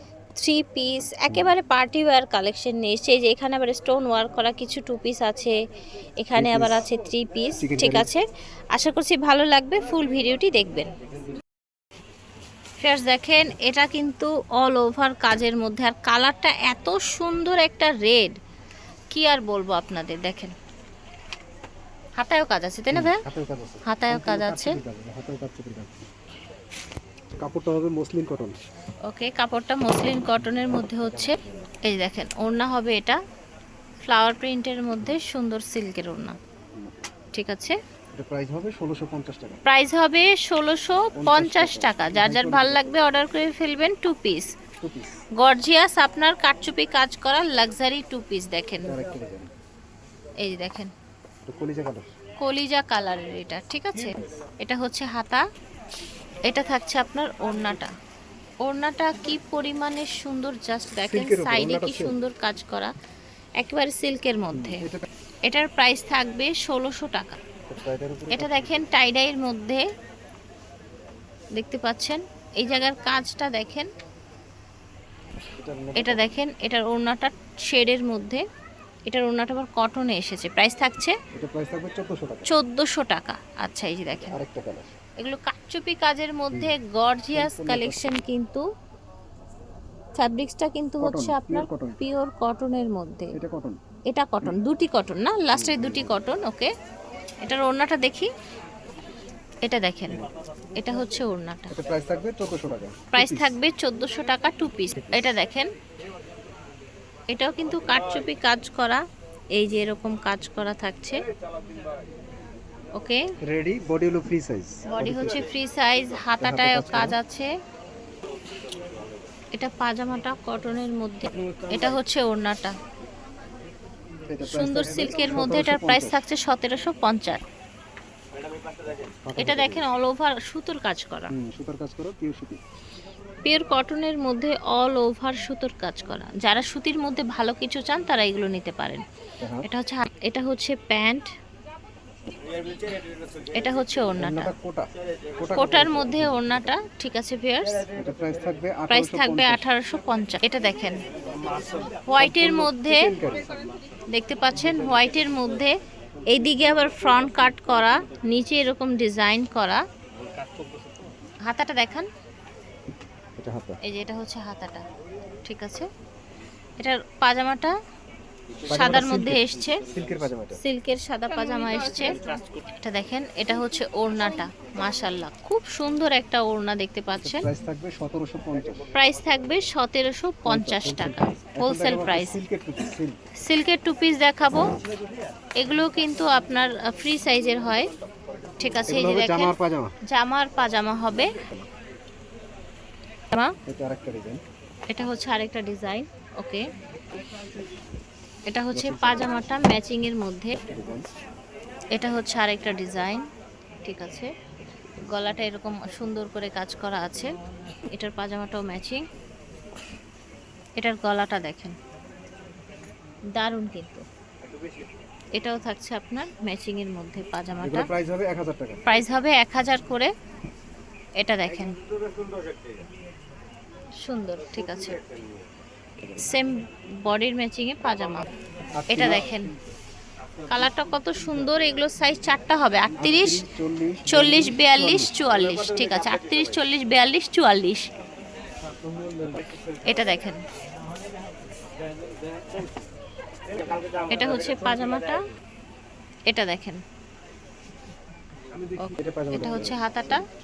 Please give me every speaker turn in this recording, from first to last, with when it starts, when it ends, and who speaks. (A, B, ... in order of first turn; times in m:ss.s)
0:00.4-0:05.5 A
0:01.2-0:01.5 B
0:06.2-0:10.9 A
0:06.3-0:06.8 B
0:07.6-0:08.1 B
0:12.8-0:18.3 A
0:19.1-0:20.5 A
0:22.2-0:23.2 A
0:22.9-0:26.1 B
0:23.9-0:24.7 A
0:27.4-0:28.6 B
0:29.1-0:33.2 A
0:30.4-0:31.7 B
0:34.1-0:36.4 A
0:36.8-0:37.0 B
0:37.3-0:37.8 A
0:38.1-0:39.6 B
0:39.6-0:44.5 A
0:41.1-0:42.8 B
0:44.8-0:45.2 B
0:45.4-0:48.9 A
0:48.8-0:49.5 B
0:50.4-0:50.9 A
0:51.4-0:52.1 B
0:52.4-0:55.4 A
0:56.5-0:57.9 A
0:58.6-1:02.9 A
1:01.0-1:02.2 B
1:03.6-1:04.8 A
1:04.5-1:05.0 B
1:05.4-1:07.4 A
1:07.7-1:08.9 B
1:08.3-1:09.8 A
1:11.6-1:13.9 A
1:15.6-1:16.4 B
1:16.0-1:18.4 A
1:19.1-1:21.2 A
1:21.3-1:22.5 B
1:22.4-1:24.4 A
1:24.2-1:24.9 B
1:25.2-1:28.6 A
1:26.5-1:26.8 B
1:27.3-1:28.2 B
1:30.2-1:33.3 A
1:31.0-1:32.0 B
1:33.3-1:33.8 B
1:34.1-1:36.7 A
1:35.5-1:36.2 B
1:37.4-1:38.3 A
1:39.6-1:40.2 A
1:40.7-1:41.7 A
1:41.7-1:43.6 B
1:43.1-1:45.7 A
1:44.9-1:45.4 B
1:47.3-1:49.0 A
1:49.5-1:51.2 A
1:53.4-1:55.5 B
1:54.8-1:57.5 A
1:56.4-1:57.2 B
1:59.5-2:02.7 A
2:04.3-2:06.2 B
2:04.4-2:07.4 A
2:09.2-2:09.9 B
2:09.4-2:11.3 A
2:11.3-2:12.6 B
2:13.4-2:19.0 A
2:19.4-2:19.6 B
2:19.6-2:21.3 A
2:23.5-2:24.5 A
2:24.2-2:26.8 B
2:25.5-2:27.8 A
2:28.0-2:29.7 B
2:28.9-2:31.0 A
2:32.0-2:33.1 A
2:32.2-2:33.5 B
2:34.1-2:35.8 A
2:36.3-2:39.8 A
2:41.4-2:42.1 A
2:43.4-2:43.8 B
2:43.8-2:44.8 A
2:45.4-2:45.9 A
2:46.8-2:47.7 A
2:48.7-2:49.8 A
2:48.7-2:50.6 B
2:50.6-2:57.4 A
2:57.2-2:58.8 B
2:58.9-3:02.4 A
3:00.4-3:03.2 B
3:03.4-3:04.7 A
3:05.6-3:07.9 A
3:08.6-3:09.5 A
3:08.9-3:09.9 B
3:10.1-3:11.3 A
3:11.2-3:11.7 B
3:13.6-3:14.4 B
3:14.9-3:16.6 A
3:18.5-3:20.6 A
3:18.7-3:19.7 B
3:20.6-3:21.0 B
3:21.9-3:23.2 A
3:23.8-3:24.3 A
3:25.1-3:27.3 A
3:27.9-3:29.0 A
3:30.8-3:31.7 A
3:33.4-3:34.0 A
3:35.4-3:37.9 A
3:37.6-3:38.8 B
3:38.9-3:40.1 A
3:41.2-3:41.7 A
3:44.0-3:45.0 A
3:46.0-3:46.3 B
3:46.2-3:48.2 A
3:48.8-3:49.4 B
3:48.9-3:49.5 A
3:50.5-3:53.4 A
3:53.0-3:55.1 B
3:54.1-3:57.9 A
3:59.8-4:00.4 A
4:04.1-4:05.2 A
4:06.3-4:06.8 A
4:08.8-4:10.2 A
4:09.0-4:09.8 B